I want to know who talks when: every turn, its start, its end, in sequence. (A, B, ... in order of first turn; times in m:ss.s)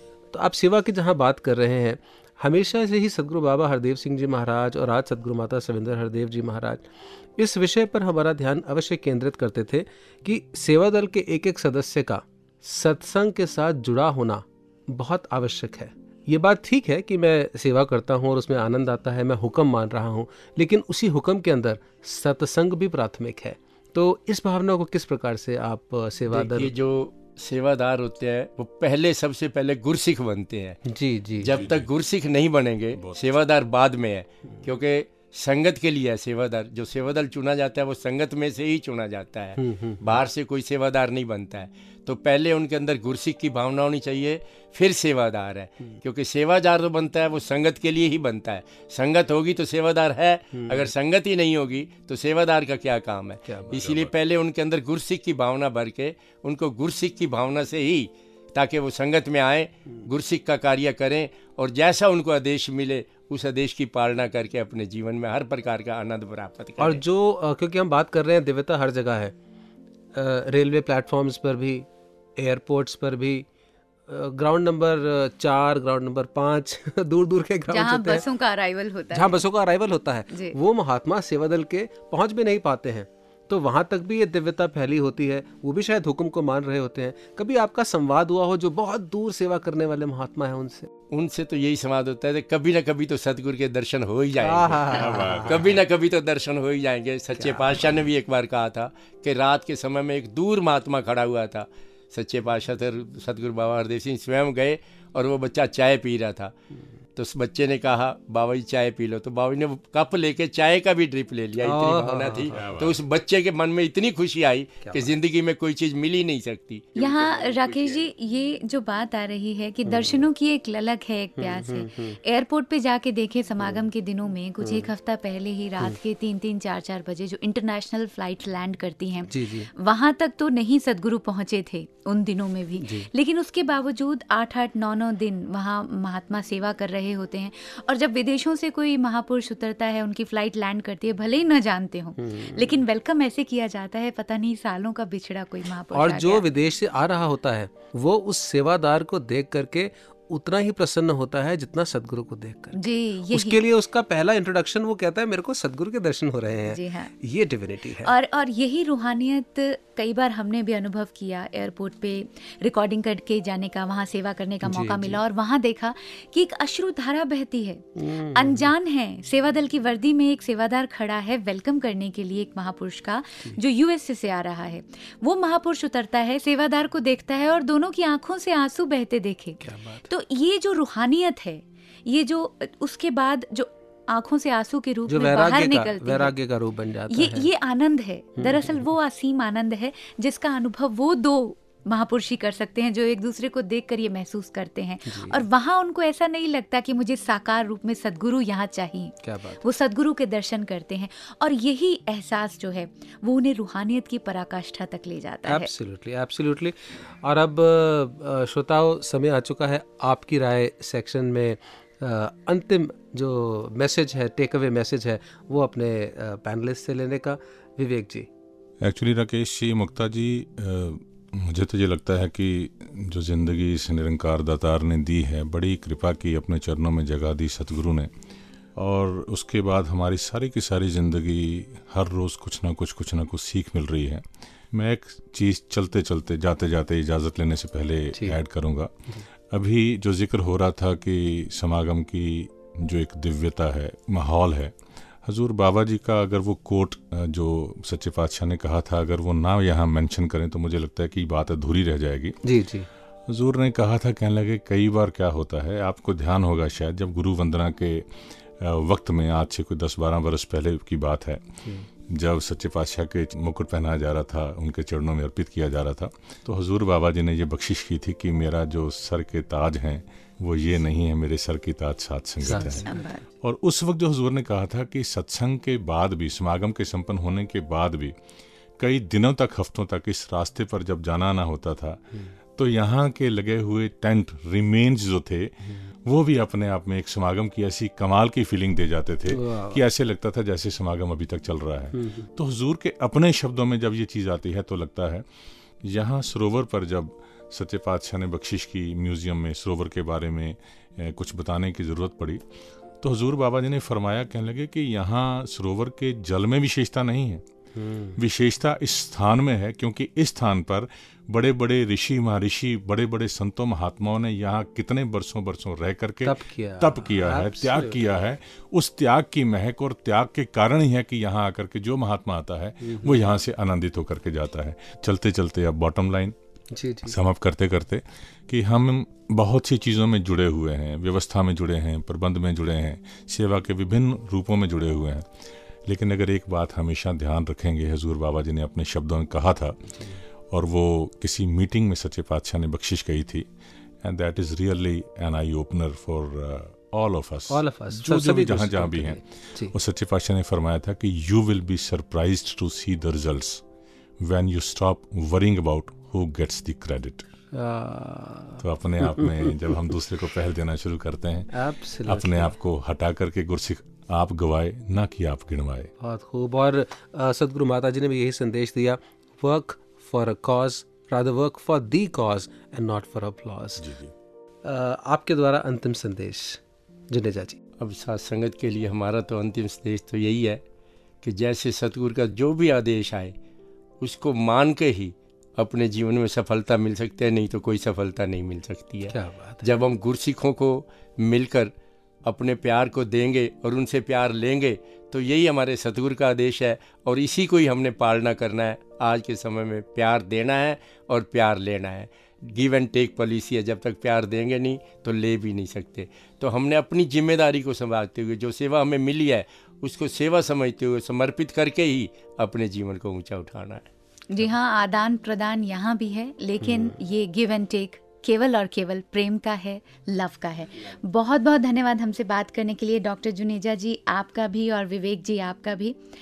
0:00.3-0:26.7 A
0:26.3-0:30.8 B
0:30.9-0:31.5 A
0:31.4-1:07.0 B
0:31.5-0:31.9 C
0:32.9-0:33.5 C
0:39.6-0:40.2 A
0:50.6-0:50.9 A
0:53.7-0:54.1 C
1:06.8-1:09.3 A
1:10.2-1:11.9 A
1:12.4-1:13.5 A
1:14.1-1:18.2 A
1:17.7-1:19.4 D
1:19.1-1:30.9 A
1:31.1-1:46.5 B
1:34.4-1:35.5 A
1:34.9-1:35.8 C
1:37.4-1:37.8 A
1:47.2-1:57.8 B
1:51.6-1:52.7 A
1:52.5-1:53.0 C
1:54.8-1:55.1 A
1:57.0-2:26.4 D
1:59.9-2:00.2 A
2:01.4-2:02.2 A
2:04.6-2:04.9 A
2:09.3-2:09.7 A
2:12.8-2:13.1 A
2:22.2-2:22.8 A
2:25.9-2:32.8 A
2:32.7-2:33.6 D
2:33.3-2:38.1 A
2:36.7-2:37.1 D
2:38.0-3:06.3 D
2:44.6-2:45.2 A
2:48.0-2:48.7 A
2:59.6-3:00.1 A
3:05.1-3:07.5 A
3:07.1-3:25.7 D
3:08.4-3:08.8 A
3:15.1-3:15.4 A
3:19.2-3:19.6 A
3:25.5-3:38.3 A
3:38.8-3:48.1 C
3:48.8-4:12.4 C
4:12.4-4:12.9 A
4:13.3-4:32.9 C
4:32.5-4:32.9 A
4:32.6-4:33.2 D
4:33.4-4:38.2 C
4:38.8-4:55.3 C
4:49.3-4:49.8 A
4:51.9-4:52.3 A
4:55.8-5:02.4 C
5:03.0-5:07.4 C
5:07.8-5:08.2 A
5:08.2-5:26.4 C
5:16.2-5:18.0 A
5:22.8-5:23.3 A
5:26.7-5:27.2 A
5:27.1-5:35.3 C
5:35.9-5:43.5 C
5:40.0-5:40.2 A
5:44.0-5:53.6 C
5:47.5-5:49.7 A
5:54.2-5:57.3 C
5:57.5-5:59.5 A
5:58.6-6:05.9 C
6:01.5-6:02.5 A
6:06.0-6:13.8 A
6:13.8-6:14.1 C
6:14.6-6:17.6 A
6:17.8-6:20.6 B
6:21.2-6:23.3 B
6:24.0-6:31.7 B
6:29.1-6:29.7 A
6:32.2-6:53.9 B
6:54.3-7:06.0 D
6:56.6-6:57.0 A